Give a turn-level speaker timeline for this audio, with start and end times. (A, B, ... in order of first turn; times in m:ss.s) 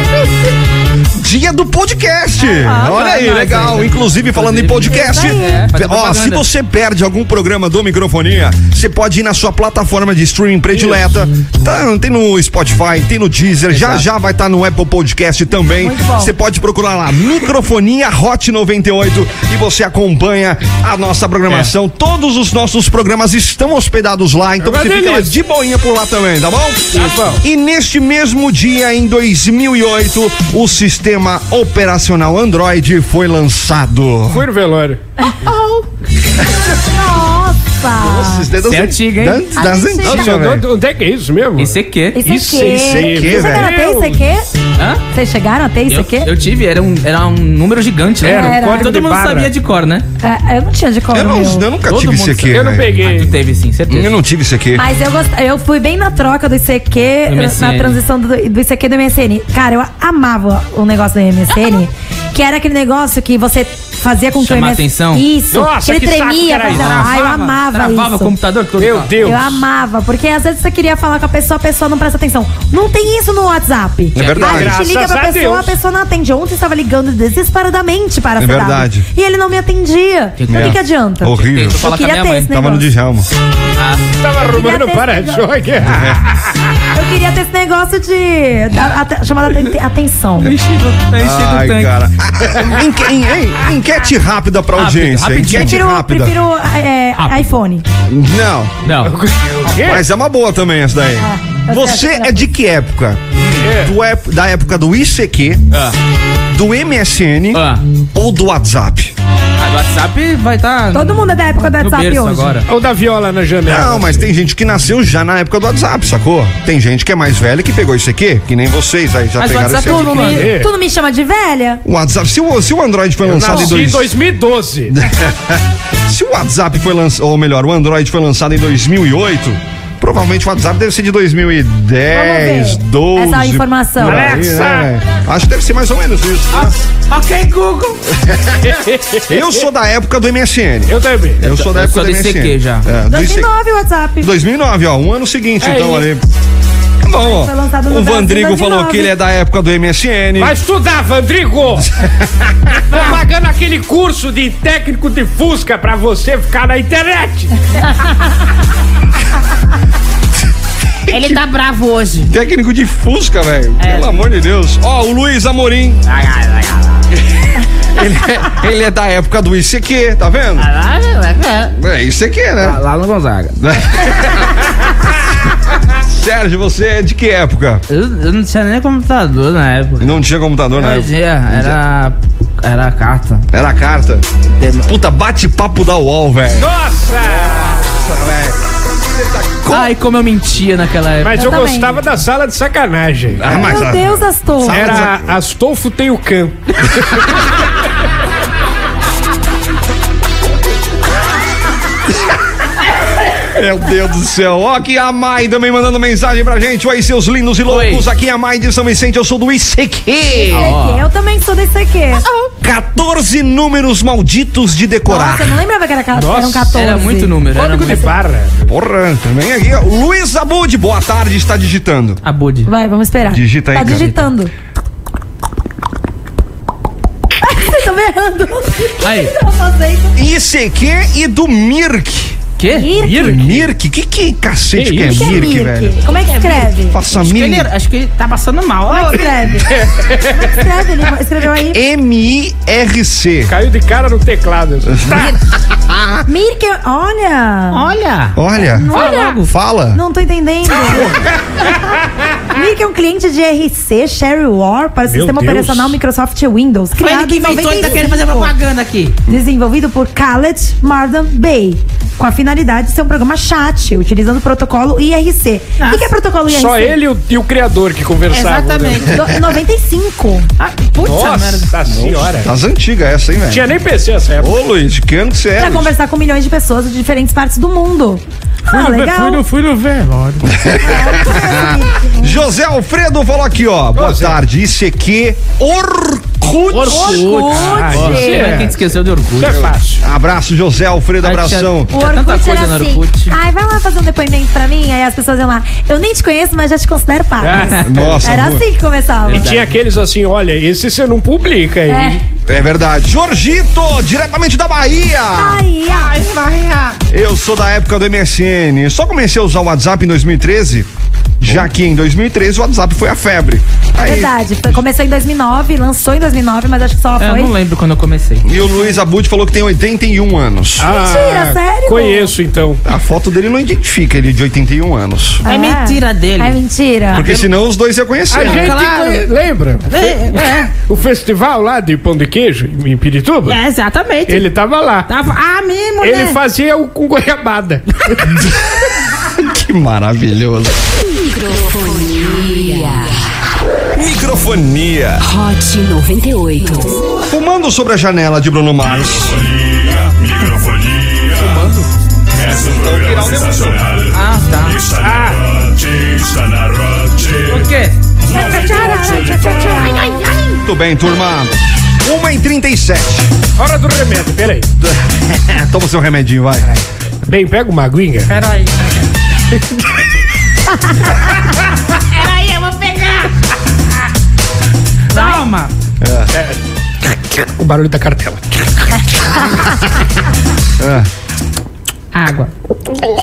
0:01.2-0:34.5 A
0:02.4-0:06.4 B
0:04.9-0:05.6 C
0:13.7-0:14.1 B
0:15.8-0:16.3 C
0:24.6-0:25.3 D
0:26.9-0:27.4 D
0:34.3-0:35.0 D
0:35.4-0:35.9 B
0:36.7-0:38.5 C
0:38.0-0:40.6 A
0:38.6-0:39.5 B
0:39.6-0:40.3 C
0:40.0-0:44.2 D
0:41.6-0:42.2 B
0:42.1-0:44.5 C
0:42.6-0:43.7 A
0:44.8-0:45.0 B
0:45.1-0:46.3 C
0:45.9-0:50.0 B
0:48.2-0:49.5 D
0:48.3-0:48.9 C
0:50.2-0:51.7 C
0:51.1-0:53.1 A
0:51.9-0:54.1 B
0:52.5-0:53.3 D
0:53.9-0:54.9 A
0:54.8-1:08.3 C
0:57.2-0:58.0 B
1:04.4-1:05.2 B
1:05.5-1:07.4 D
1:06.7-1:09.4 B
1:08.8-1:09.6 D
1:09.2-1:22.9 C
1:14.1-1:14.8 A
1:14.2-1:14.6 B
1:14.4-1:15.8 D
1:18.4-1:19.1 A
1:20.4-1:22.5 B
1:20.5-1:21.9 A
1:22.5-1:23.3 A
1:23.8-1:24.1 B
1:24.2-1:26.5 D
1:24.4-1:25.5 C
1:25.8-1:26.2 A
1:26.9-1:30.6 C
1:30.4-1:31.9 B
1:31.2-1:36.4 A
1:34.7-1:35.8 B
1:35.4-1:37.8 C
1:37.2-1:37.5 B
1:38.1-1:38.7 A
1:38.8-1:39.2 B
1:39.0-1:40.0 D
1:39.7-1:45.6 A
1:41.2-1:42.5 C
1:43.6-1:43.9 D
1:45.7-1:46.0 B
1:46.5-1:49.1 A
1:47.5-1:47.8 B
1:49.6-1:52.7 B
1:50.9-1:52.6 C
1:52.7-1:54.3 D
1:53.6-2:00.4 A
1:59.4-2:00.5 B
2:00.1-2:01.8 C
2:00.2-2:00.7 D
2:01.8-2:04.1 A
2:03.2-2:05.0 D
2:04.9-2:16.7 A
2:12.1-2:14.4 C
2:14.0-2:14.9 D
2:16.5-2:18.0 B
2:18.1-2:18.7 A
2:18.6-2:19.6 D
2:19.3-2:23.5 A
2:20.9-2:21.4 D
2:21.5-2:22.9 B
2:23.1-2:24.3 C
2:24.2-2:26.2 A
2:25.6-2:26.1 D
2:27.0-2:30.6 A
2:27.2-2:29.1 C
2:30.4-2:31.9 D
2:31.8-2:33.0 A
2:32.9-2:37.5 D
2:41.1-2:41.4 A
2:41.1-2:42.3 B
2:42.3-2:46.0 A
2:43.8-2:44.1 B
2:46.1-2:47.0 B
2:47.9-2:50.7 A
2:50.6-2:51.8 B
2:51.7-2:52.8 A
2:52.6-2:53.6 B
2:53.6-2:54.5 A
2:55.9-2:57.8 A
2:57.9-3:00.2 B
3:00.0-3:01.8 A
3:00.7-3:03.5 B
3:03.5-3:04.2 A
3:04.6-3:04.9 B
3:04.8-3:06.7 A
3:06.5-3:08.0 D
3:07.8-3:09.9 A
3:09.7-3:11.5 B
3:11.2-3:13.5 D
3:11.3-3:11.9 C
3:13.4-3:15.4 A
3:13.5-3:15.1 C
3:14.7-3:17.4 D
3:23.4-3:30.8 A
3:27.7-3:28.0 B
3:30.5-3:32.2 C
3:30.5-3:31.1 B
3:32.6-3:35.6 A
3:35.1-3:37.4 C
3:36.1-3:36.8 D
3:36.7-3:38.1 B
3:37.5-3:38.6 D
3:38.7-3:42.2 A
3:42.2-3:42.7 B
3:42.6-3:44.5 C
3:43.3-3:44.1 A
3:43.8-3:44.2 B
3:47.4-3:50.2 C
3:49.0-3:49.3 B
3:50.2-3:52.4 A
3:52.6-3:53.0 B
3:52.7-3:53.4 C
3:53.0-3:53.6 D
3:53.0-3:56.0 A
3:54.8-3:55.5 D
3:55.0-3:57.0 C
3:56.1-3:59.3 B
3:56.8-3:57.7 A
3:58.9-4:01.8 C
3:59.8-4:00.6 D
4:01.7-4:03.5 A
4:03.5-4:05.4 D
4:04.8-4:06.2 A
4:06.3-4:07.9 C
4:07.7-4:08.4 B
4:08.4-4:10.0 A
4:08.7-4:11.1 C
4:08.9-4:09.5 B
4:12.5-4:18.5 C
4:15.1-4:16.0 D
4:17.0-4:19.2 B
4:19.3-4:27.0 C
4:25.8-4:26.1 B
4:26.5-4:29.2 D
4:28.3-4:29.1 B
4:29.1-4:30.5 C
4:30.6-4:31.8 B
4:31.0-4:32.5 D
4:31.9-4:33.7 A
4:33.5-4:34.5 D
4:34.4-4:35.9 A
4:35.6-4:39.4 C
4:38.8-4:39.1 D
4:38.8-4:40.5 B
4:40.5-4:47.5 A
4:40.8-4:42.4 C
4:43.9-4:44.4 D
4:46.7-4:49.6 B
4:46.9-4:48.6 C
4:47.5-4:48.8 D
4:49.4-4:50.0 D
4:49.4-4:51.9 A
4:51.2-4:53.3 B
4:51.9-4:59.5 C
4:57.4-4:58.2 D
4:57.8-4:58.6 A
4:59.3-4:59.8 B
4:59.3-5:02.2 D
5:01.9-5:02.2 C
5:02.5-5:05.7 A
5:05.4-5:06.1 C
5:05.9-5:07.0 B
5:07.1-5:10.9 A
5:11.4-5:14.3 A
5:14.0-5:17.5 C
5:17.2-5:18.5 B
5:18.4-5:20.9 A
5:20.8-5:22.8 D
5:20.8-5:22.3 C
5:22.8-5:25.4 A
5:25.4-5:27.3 C
5:25.4-5:26.6 B
5:27.1-5:28.8 A
5:27.1-5:27.5 B
5:28.3-5:33.6 D
5:28.4-5:29.3 B
5:29.9-5:30.7 B
5:33.5-5:34.5 B
5:34.3-5:35.1 D
5:35.1-5:36.4 B
5:36.0-5:38.4 D
5:39.4-5:40.8 A
5:41.1-5:43.3 E
5:43.9-5:45.2 A
5:45.2-5:47.0 E
5:47.2-5:49.4 A
5:48.8-5:51.7 F
5:52.3-5:57.7 F
5:52.6-5:53.8 A
5:54.1-5:54.8 B
5:55.0-5:55.4 D
5:57.5-5:58.0 B
5:58.2-5:59.9 F
5:58.3-6:00.2 C
5:59.6-5:59.8 D
6:00.6-6:03.3 A
6:03.6-6:04.7 D
6:04.8-6:06.7 A
6:06.6-6:08.3 D
6:08.3-6:08.9 B
6:12.1-6:13.3 B
6:15.1-6:15.7 B
6:16.0-6:16.3 A
6:16.3-6:16.6 D
6:17.3-6:18.5 D
6:19.3-6:19.7 D
6:20.8-6:21.1 A
6:22.1-6:22.5 B